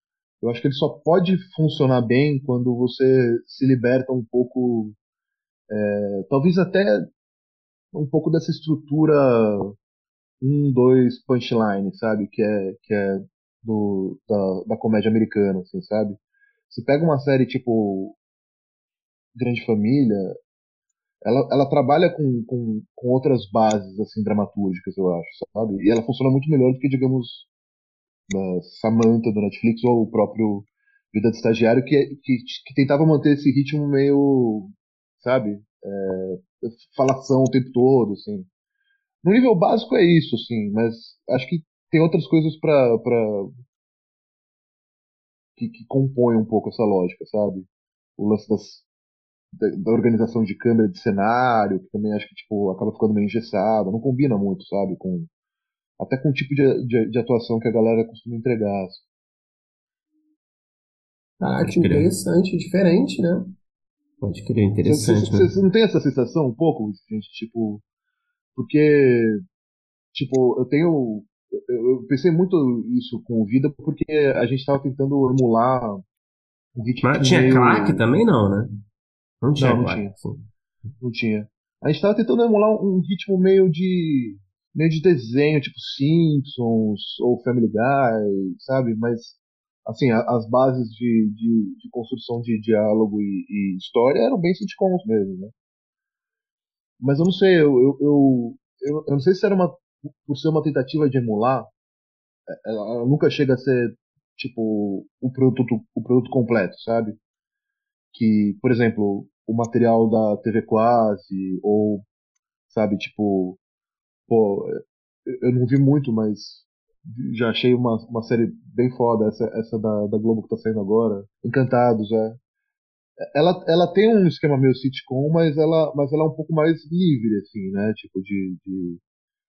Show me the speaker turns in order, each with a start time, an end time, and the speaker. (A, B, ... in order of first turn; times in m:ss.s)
0:00.4-0:05.0 A
0:05.7-0:07.1 A
0:07.9-0:09.8 A
0:10.4-0:18.2 A
0:19.4-0:20.4 A
0:21.2-0:27.5 A
0:28.3-0:38.5 A
0:39.2-0:43.5 A
0:45.6-0:48.9 A
0:49.6-0:55.3 A
0:56.0-0:59.0 A
1:01.4-1:03.5 B
1:01.6-1:02.1 C
1:04.2-1:05.5 C
1:04.8-1:07.8 A
1:08.6-1:09.4 A
1:10.1-1:16.0 A
1:16.8-1:18.0 A
1:17.0-1:18.7 C
1:19.4-1:20.5 C
1:19.6-1:20.1 A
1:21.0-1:35.5 A
1:37.0-1:41.7 A
1:42.5-1:47.2 A
1:48.1-1:52.0 A
1:52.7-1:53.6 A
1:54.3-2:02.4 A
2:03.3-2:09.0 A